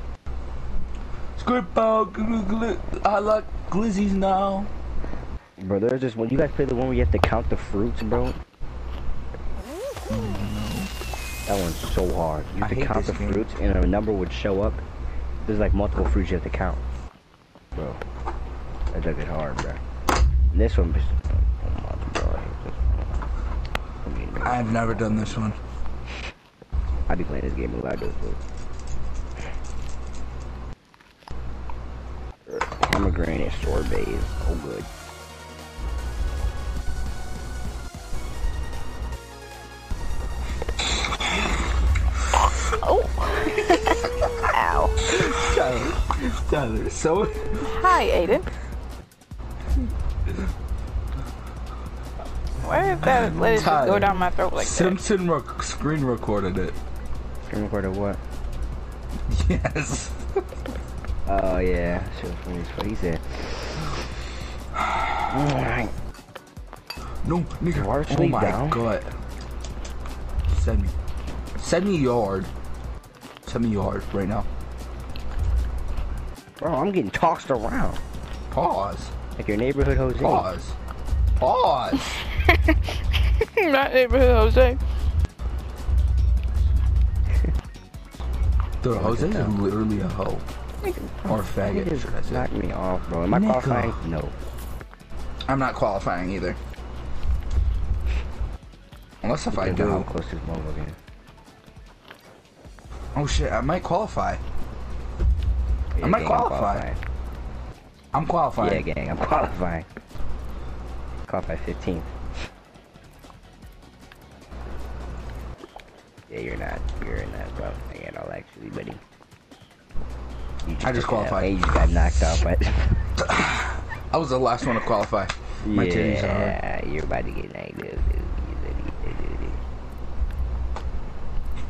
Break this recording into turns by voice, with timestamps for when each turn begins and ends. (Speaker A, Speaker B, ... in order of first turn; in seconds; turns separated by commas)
Speaker A: 1.4-4.7, Speaker B: 5.6-8.4, Speaker A: 10.1-10.9, Speaker B: 11.5-14.8, Speaker A: 12.6-13.5, Speaker B: 15.4-16.8, Speaker B: 17.7-18.0, Speaker B: 18.9-19.8, Speaker B: 20.5-23.2, Speaker B: 24.0-25.4, Speaker A: 24.4-25.6, Speaker B: 27.1-28.4, Speaker B: 32.5-34.9, Speaker C: 42.7-45.0, Speaker A: 45.1-48.0, Speaker C: 47.6-48.5, Speaker C: 52.6-55.0, Speaker A: 53.0-56.8, Speaker B: 57.5-58.2, Speaker A: 59.3-60.3, Speaker B: 61.2-64.0, Speaker A: 64.9-65.2, Speaker B: 65.3-65.9, Speaker A: 67.2-69.2, Speaker B: 67.7-68.8, Speaker A: 70.5-70.9, Speaker A: 71.6-72.5, Speaker A: 73.5-74.5, Speaker B: 76.6-78.0, Speaker A: 78.5-79.1, Speaker B: 79.4-80.5, Speaker A: 80.2-80.8, Speaker A: 81.4-82.2, Speaker C: 82.4-84.8, Speaker A: 88.8-90.4, Speaker B: 88.9-89.5, Speaker B: 90.8-94.3, Speaker A: 91.2-92.5, Speaker A: 93.3-94.0, Speaker A: 95.5-96.6, Speaker A: 99.2-100.1, Speaker B: 99.5-101.0, Speaker A: 103.1-104.4, Speaker B: 105.9-107.0, Speaker A: 106.0-106.8, Speaker A: 108.1-108.8, Speaker B: 108.6-109.9, Speaker B: 111.2-112.1, Speaker B: 116.3-119.0, Speaker B: 120.6-123.0, Speaker A: 120.8-121.7, Speaker A: 123.2-126.6, Speaker B: 125.6-129.6